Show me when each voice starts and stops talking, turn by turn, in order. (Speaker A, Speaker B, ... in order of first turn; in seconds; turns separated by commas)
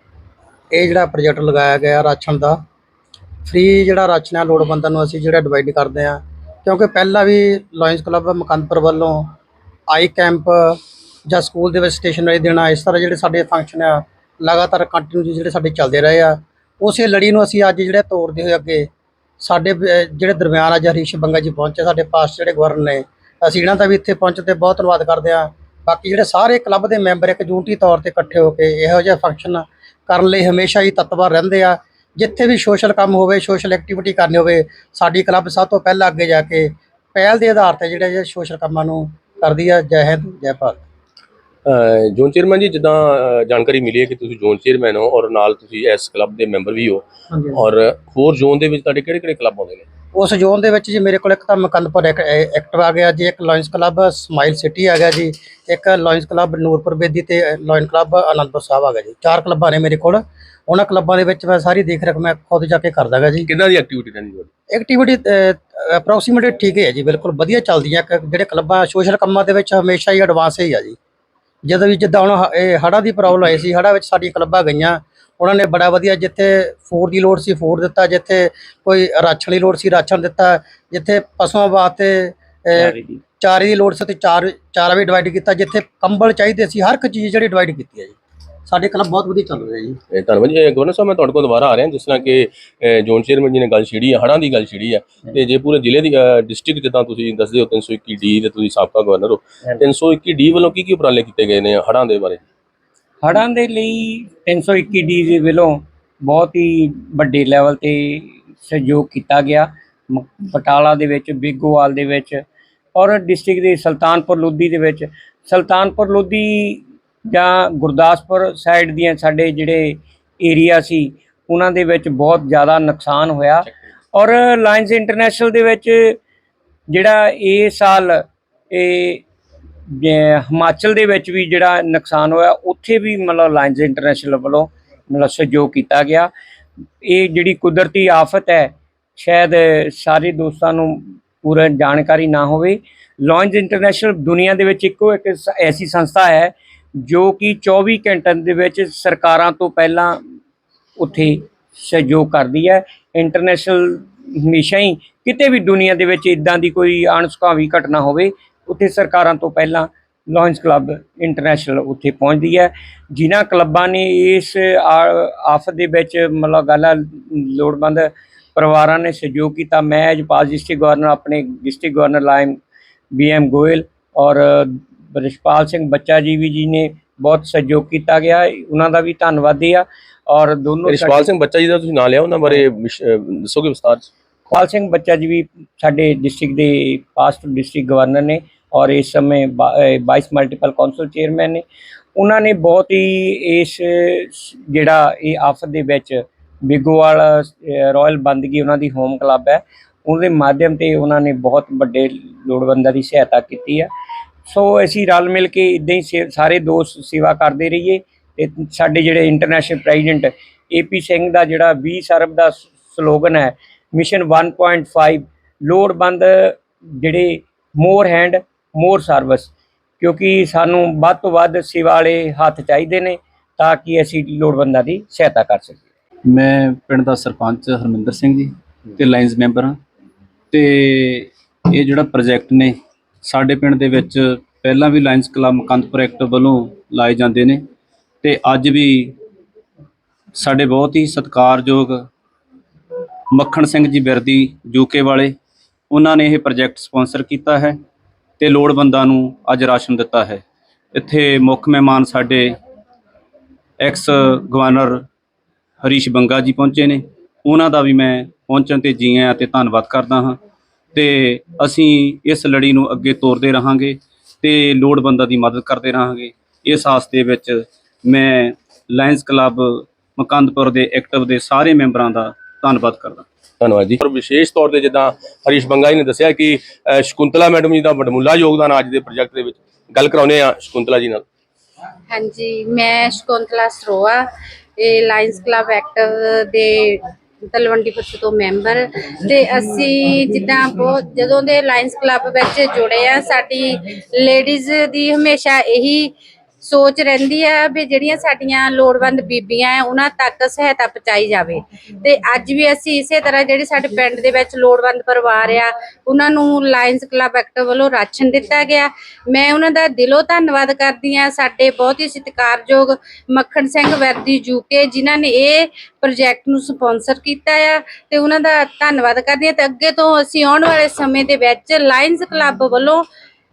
Speaker A: 0.7-2.6, Speaker A: 3.5-9.3, Speaker A: 9.9-18.9, Speaker A: 19.4-40.8, Speaker B: 41.6-49.9, Speaker A: 47.3-47.6, Speaker A: 50.1-63.5, Speaker B: 63.5-64.5, Speaker A: 64.7-71.0, Speaker A: 71.6-88.2, Speaker C: 82.8-83.2, Speaker A: 88.7-90.0, Speaker B: 90.1-102.4, Speaker C: 103.2-112.4, Speaker C: 112.9-126.2, Speaker C: 126.9-129.2, Speaker C: 129.9-136.3, Speaker C: 137.0-150.2, Speaker C: 151.0-172.6, Speaker C: 173.1-181.3, Speaker B: 180.9-184.1, Speaker C: 184.5-191.6, Speaker C: 192.2-203.9, Speaker C: 204.4-225.8, Speaker D: 226.3-229.8, Speaker D: 230.5-237.6, Speaker D: 238.2-239.2, Speaker D: 240.3-242.1, Speaker D: 243.3-245.3, Speaker D: 245.9-247.8, Speaker D: 248.4-250.4, Speaker D: 250.9-252.6, Speaker D: 253.8-255.0, Speaker D: 255.8-260.4, Speaker D: 260.9-273.2, Speaker B: 273.6-281.2, Speaker E: 282.1-284.2, Speaker E: 284.8-323.0